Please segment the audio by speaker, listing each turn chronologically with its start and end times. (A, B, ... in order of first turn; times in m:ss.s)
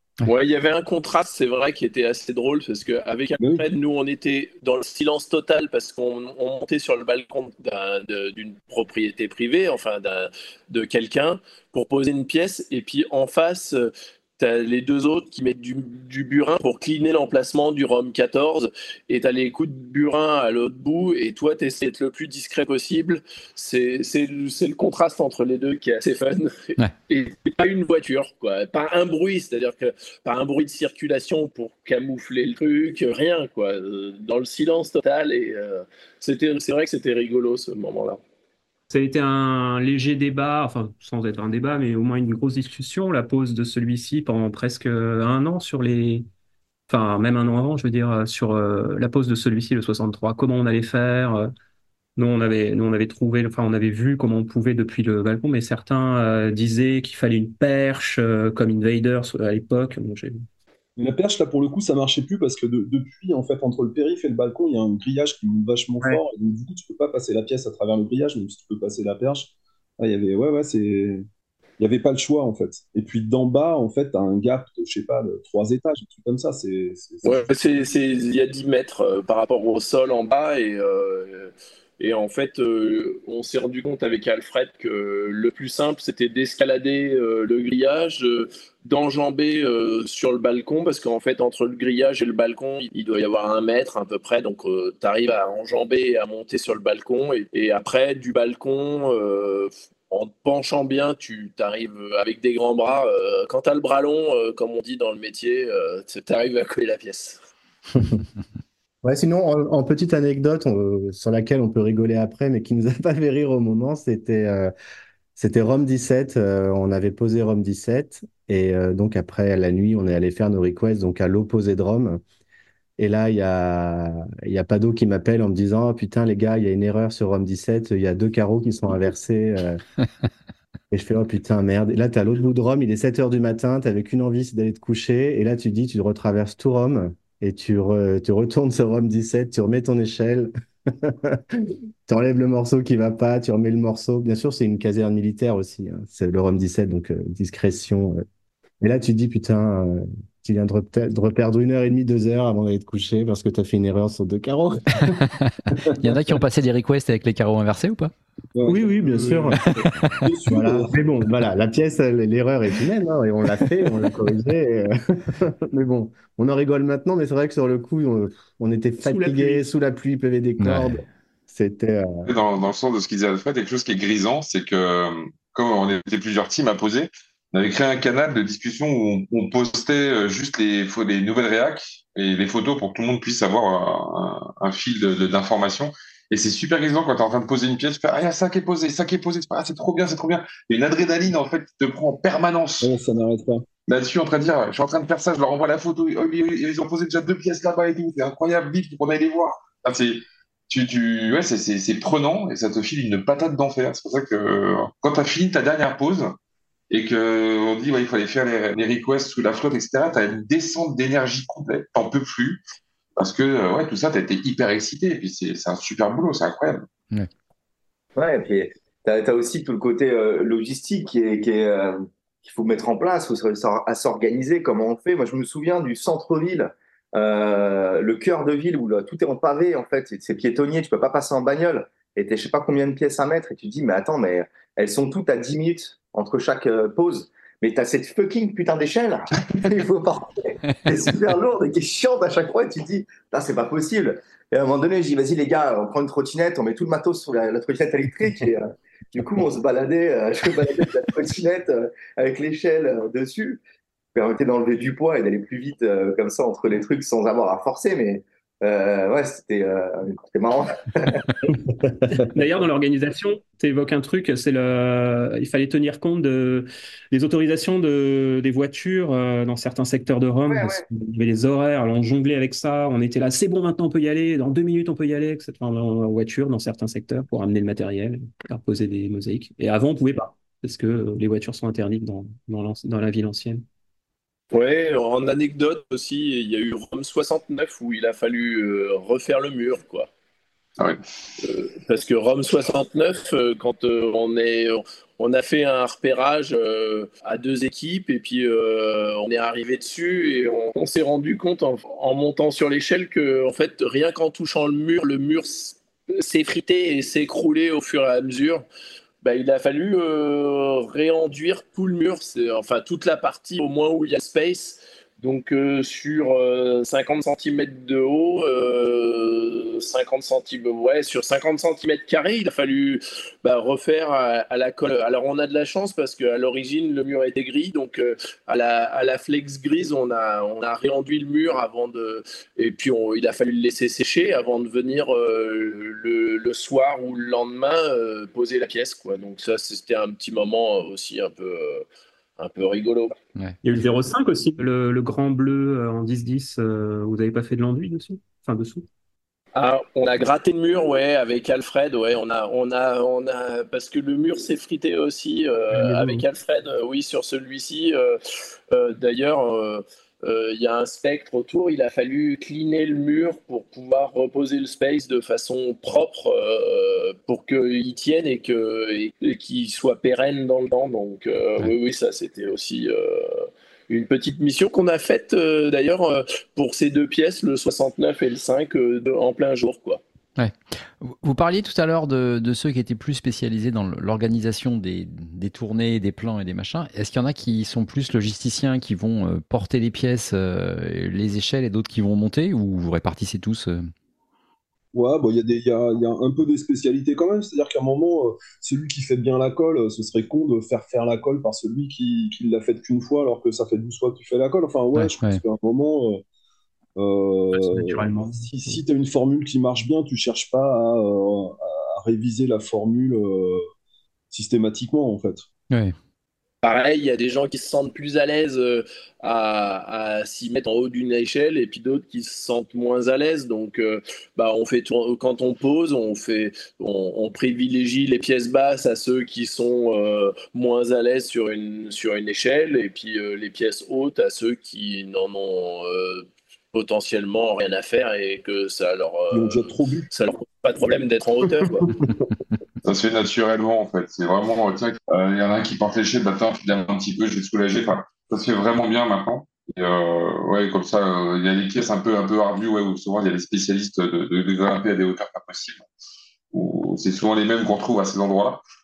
0:00.2-0:38.2 A
0:03.4-0:03.7 B
0:38.9-0:46.3 C
0:46.9-0:51.5 C
0:52.2-1:00.4 C
1:01.0-1:11.3 B
1:11.8-1:17.5 B
1:17.2-1:47.4 A
1:48.0-1:48.2 D
1:49.0-1:54.7 D
1:55.4-2:02.2 D
2:03.0-2:09.8 D
2:10.9-2:28.2 D
2:28.8-2:36.2 D
2:35.1-2:38.1 E
2:38.6-2:38.9 B
2:38.7-2:39.6 D
2:38.7-2:39.7 C
2:39.6-2:41.0 B
2:40.5-2:52.3 D
2:49.0-2:49.6 C
2:50.6-2:51.0 E
2:52.3-3:12.9 F
3:12.8-3:13.7 B
3:13.9-3:26.3 F
3:26.9-3:32.6 F
3:33.2-3:36.9 F
3:38.2-4:13.6 G
4:14.1-4:21.3 G
4:22.1-4:43.6 C
4:30.5-4:30.8 G
4:44.5-4:50.1 A
4:51.4-5:08.6 A
5:09.2-5:41.8 A
5:42.4-5:43.2 A
5:43.6-5:48.9 C
5:49.6-5:58.2 A
5:55.7-5:56.2 C
5:58.7-6:20.0 A
6:20.4-6:33.9 E
6:34.9-6:46.2 B
6:45.0-6:45.4 E
6:47.0-6:53.7 B
6:47.5-6:48.7 C
6:54.3-6:55.5 B
6:55.7-6:56.0 E
6:56.6-7:21.9 A
7:19.3-7:20.1 B
7:22.8-7:35.9 F
7:36.5-7:38.6 F